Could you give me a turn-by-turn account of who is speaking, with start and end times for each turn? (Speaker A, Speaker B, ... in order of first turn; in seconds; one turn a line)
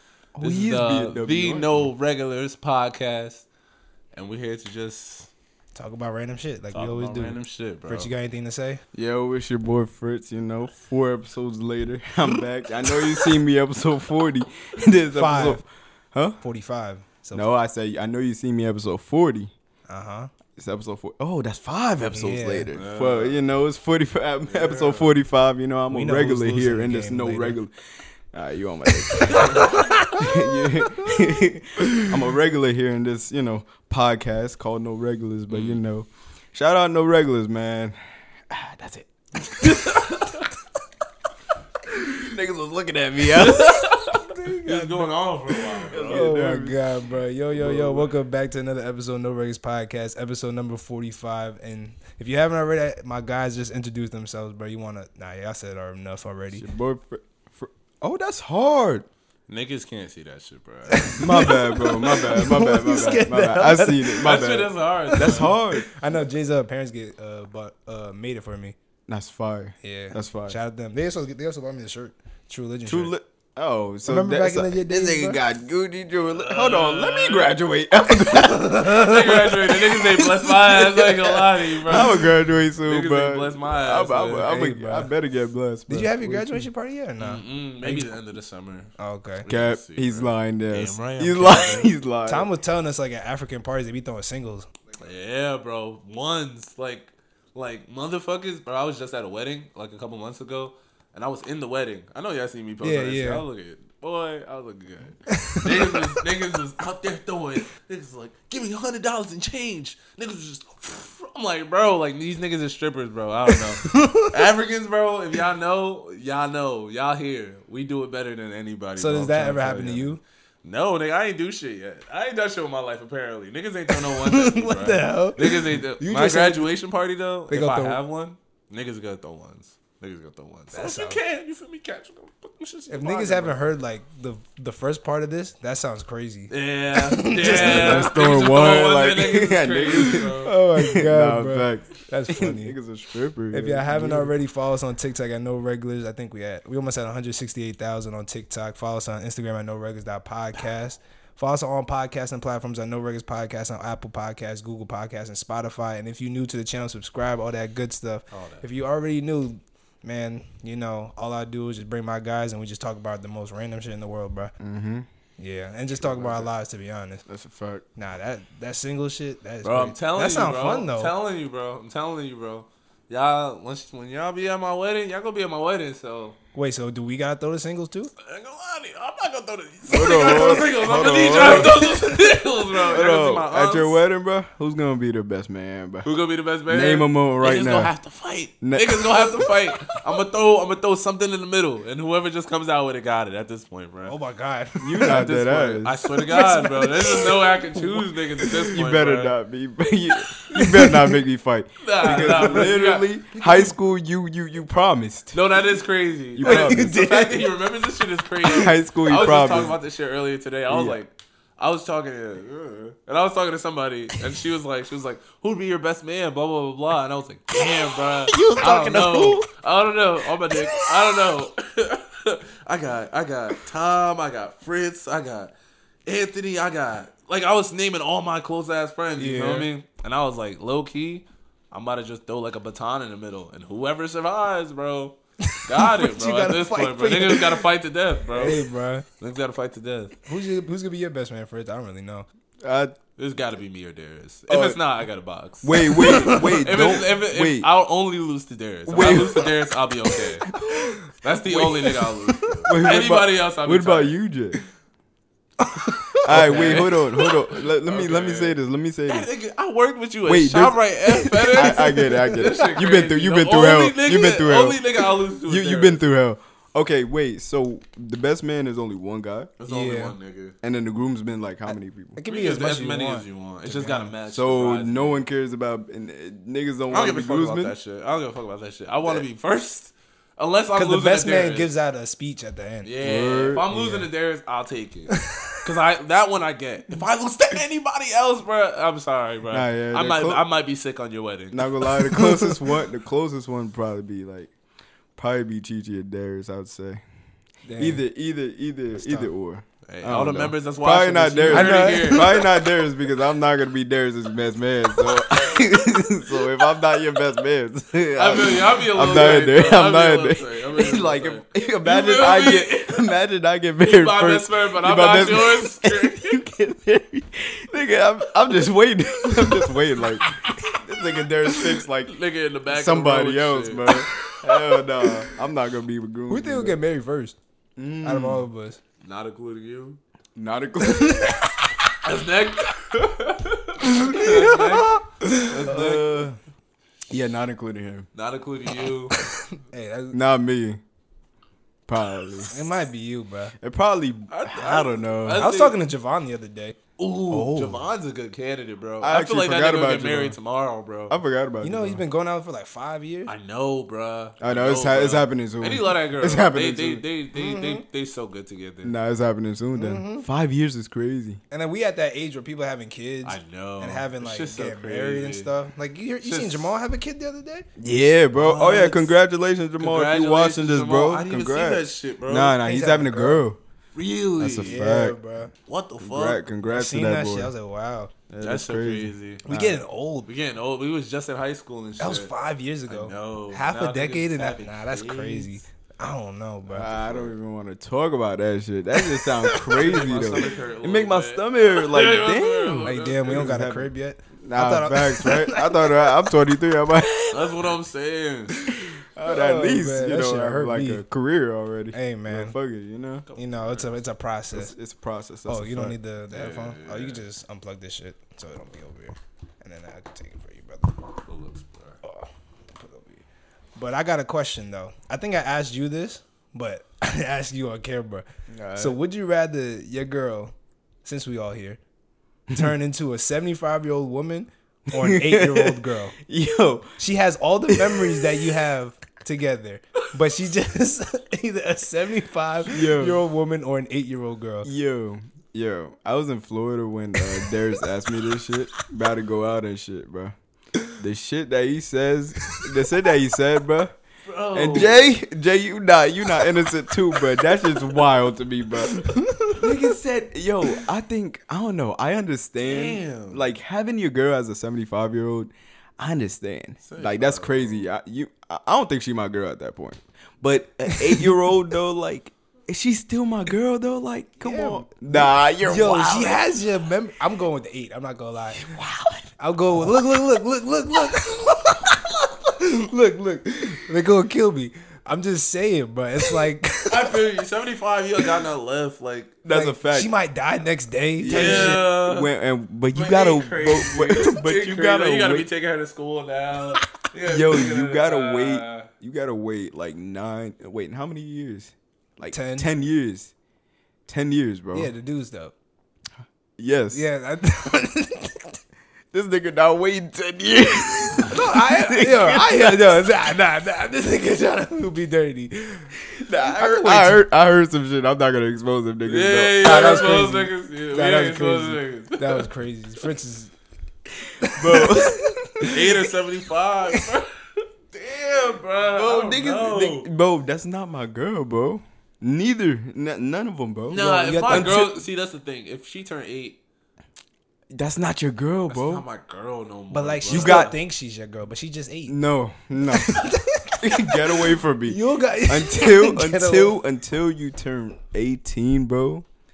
Speaker A: 0.3-1.9
Speaker B: 0.4-3.5
Speaker B: 4.1-5.3
Speaker C: 5.7-8.8
Speaker B: 6.7-8.1
Speaker A: 8.9-16.4
Speaker C: 15.1-15.6
Speaker C: 16.4-17.5
Speaker A: 17.3-19.5
Speaker C: 19.9-20.3
Speaker A: 20.6-27.7
Speaker C: 22.1-22.7
Speaker B: 22.7-23.4
Speaker B: 24.5-25.1
Speaker C: 25.9-27.6
Speaker A: 28.3-38.0
Speaker C: 29.1-31.1
Speaker B: 35.5-35.8
Speaker A: 38.5-40.3
Speaker B: 39.7-40.4
Speaker A: 41.9-43.9
Speaker B: 43.3-46.3
Speaker C: 44.7-44.9
Speaker A: 45.8-46.9
Speaker C: 46.0-56.7
Speaker A: 47.5-48.1
Speaker A: 56.5-59.0
Speaker B: 59.5-61.1
Speaker C: 60.9-64.3
Speaker A: 61.1-65.9
Speaker B: 64.2-65.5
Speaker C: 65.1-68.8
Speaker A: 69.1-70.6
Speaker C: 69.8-73.1
Speaker A: 72.8-78.8
Speaker C: 74.0-75.4
Speaker B: 76.5-77.5
Speaker C: 78.1-81.2
Speaker B: 78.8-82.2
Speaker A: 81.8-86.7
Speaker B: 82.8-84.6
Speaker C: 84.4-85.1
Speaker C: 85.9-88.1
Speaker B: 87.2-88.9
Speaker C: 89.0-89.5
Speaker B: 89.4-91.9
Speaker A: 89.5-92.5
Speaker C: 92.2-94.7
Speaker B: 95.0-133.6
Speaker C: 102.8-103.4
Speaker C: 105.3-106.2
Speaker C: 113.5-114.4
Speaker C: 119.0-120.2
Speaker C: 123.9-126.7
Speaker C: 127.5-128.0
Speaker C: 130.7-131.2
Speaker C: 132.9-138.1
Speaker B: 136.5-140.5
Speaker A: 137.4-144.3
Speaker C: 140.4-142.8
Speaker C: 143.5-164.5
Speaker B: 158.3-158.6
Speaker A: 164.6-165.1
Speaker C: 165.4-167.2
Speaker A: 166.0-166.5
Speaker A: 167.2-167.8
Speaker C: 167.9-171.1
Speaker B: 169.6-176.4
Speaker C: 176.5-178.1
Speaker B: 178.2-184.0
Speaker A: 179.9-181.9
Speaker C: 179.9-180.7
Speaker C: 181.3-182.2
Speaker A: 182.8-186.1
Speaker B: 186.0-194.1
Speaker A: 186.7-187.9
Speaker A: 188.6-189.3
Speaker C: 194.1-195.2
Speaker A: 194.8-196.1
Speaker B: 195.0-199.3
Speaker C: 196.2-198.4
Speaker A: 198.6-205.4
Speaker C: 200.3-201.1
Speaker B: 201.8-203.1
Speaker C: 202.0-203.7
Speaker B: 205.3-225.5
Speaker A: 206.3-206.9
Speaker C: 206.4-207.5
Speaker A: 208.4-209.8
Speaker A: 210.7-211.0
Speaker C: 217.7-219.4
Speaker A: 218.5-219.3
Speaker B: 226.1-238.6
Speaker C: 229.2-229.7
Speaker C: 235.5-237.7
Speaker C: 238.3-239.1
Speaker B: 239.2-240.1
Speaker C: 240.2-242.3
Speaker A: 242.6-242.9
Speaker B: 243.2-250.5
Speaker A: 244.5-244.8
Speaker A: 245.6-247.7
Speaker C: 245.9-246.5
Speaker A: 248.8-249.6
Speaker C: 250.7-252.8
Speaker B: 251.2-254.1
Speaker A: 252.7-254.6
Speaker C: 255.6-257.2
Speaker A: 256.2-259.3
Speaker B: 256.2-266.0
Speaker A: 260.2-264.8
Speaker C: 261.6-262.4
Speaker A: 265.4-269.5
Speaker B: 269.6-270.5
Speaker C: 269.7-270.1
Speaker A: 270.6-272.2
Speaker C: 272.1-274.1
Speaker B: 272.3-275.2
Speaker A: 274.3-277.7
Speaker B: 276.9-281.7
Speaker C: 280.7-282.9
Speaker B: 282.8-291.6
Speaker A: 283.0-283.7
Speaker C: 283.7-284.1
Speaker C: 285.1-285.6
Speaker A: 289.5-290.4
Speaker A: 291.5-294.5
Speaker C: 292.0-292.5
Speaker A: 295.1-297.0
Speaker C: 297.6-298.0
Speaker A: 297.8-322.1
Speaker C: 299.0-299.3
Speaker B: 299.9-302.4
Speaker C: 301.5-302.4
Speaker B: 308.2-313.0
Speaker B: 313.8-316.4
Speaker C: 320.3-320.6
Speaker B: 322.1-323.9
Speaker A: 322.7-326.8
Speaker C: 326.3-327.4
Speaker A: 327.8-328.4
Speaker C: 328.0-328.8
Speaker B: 329.0-330.0
Speaker A: 330.4-331.4
Speaker C: 330.8-331.5
Speaker B: 332.0-336.1
Speaker C: 333.9-335.5
Speaker A: 335.5-336.4
Speaker A: 337.1-338.1
Speaker B: 338.1-339.1
Speaker C: 339.3-340.2
Speaker A: 340.1-340.8
Speaker A: 341.9-342.7
Speaker C: 342.5-343.5
Speaker A: 343.6-345.5
Speaker B: 344.3-345.8
Speaker C: 345.3-346.8
Speaker B: 347.0-351.1
Speaker A: 347.3-347.8
Speaker A: 349.0-350.4
Speaker A: 351.1-352.0
Speaker C: 351.6-353.3
Speaker B: 353.3-358.9
Speaker A: 354.4-357.0
Speaker C: 357.3-357.8
Speaker A: 358.8-361.4
Speaker C: 359.7-360.2
Speaker C: 361.5-367.7
Speaker B: 363.2-365.5
Speaker B: 366.2-366.7
Speaker A: 367.8-373.6
Speaker C: 368.4-369.1
Speaker B: 369.8-372.6
Speaker C: 372.6-373.4
Speaker B: 373.9-374.8
Speaker A: 374.4-375.2
Speaker C: 374.6-375.5
Speaker B: 375.7-376.4
Speaker A: 376.0-377.5
Speaker C: 376.7-378.1
Speaker A: 378.3-379.8
Speaker B: 378.4-379.4
Speaker C: 379.4-380.3
Speaker B: 380.3-382.3
Speaker C: 382.0-387.0
Speaker B: 382.9-385.5
Speaker A: 386.7-397.7
Speaker C: 389.1-389.8
Speaker B: 389.7-393.5
Speaker C: 392.8-396.2
Speaker B: 397.3-398.5
Speaker C: 398.7-401.0
Speaker A: 398.7-403.2
Speaker C: 401.9-402.5
Speaker B: 403.3-403.9
Speaker C: 403.4-404.8
Speaker A: 404.5-406.0
Speaker C: 405.5-411.0
Speaker B: 406.3-407.2
Speaker B: 411.2-412.0
Speaker C: 412.0-413.2
Speaker C: 413.8-420.5
Speaker A: 418.5-419.0
Speaker C: 421.0-421.8
Speaker C: 422.5-426.1
Speaker A: 424.9-426.9
Speaker C: 427.0-434.7
Speaker A: 427.7-428.4
Speaker A: 432.7-433.2
Speaker A: 434.6-440.3
Speaker A: 441.0-443.9
Speaker B: 444.2-445.1
Speaker A: 444.5-466.4
Speaker C: 448.9-449.9
Speaker B: 452.6-453.4
Speaker B: 456.8-457.8
Speaker C: 460.9-461.1
Speaker C: 464.4-468.7
Speaker A: 468.5-469.3
Speaker C: 469.4-477.2
Speaker B: 476.9-479.4
Speaker A: 479.4-480.1
Speaker C: 479.5-481.8
Speaker A: 481.2-485.5
Speaker B: 481.3-482.3
Speaker B: 482.9-488.9
Speaker A: 487.2-493.3
Speaker C: 492.3-492.7
Speaker A: 494.1-494.9
Speaker C: 494.7-495.5
Speaker A: 496.6-497.0
Speaker C: 496.9-498.5
Speaker A: 499.1-503.0
Speaker C: 501.3-507.2
Speaker A: 506.2-510.1
Speaker B: 509.1-512.5
Speaker C: 509.6-513.5
Speaker C: 514.4-515.9
Speaker A: 514.5-515.9
Speaker B: 515.6-517.3
Speaker B: 517.9-520.1
Speaker A: 518.9-525.0
Speaker B: 523.9-526.6
Speaker C: 523.9-524.9
Speaker A: 527.7-529.0
Speaker B: 528.7-530.7
Speaker C: 529.9-532.1
Speaker A: 530.3-530.7
Speaker A: 532.1-533.1
Speaker C: 532.9-536.8
Speaker A: 533.8-539.2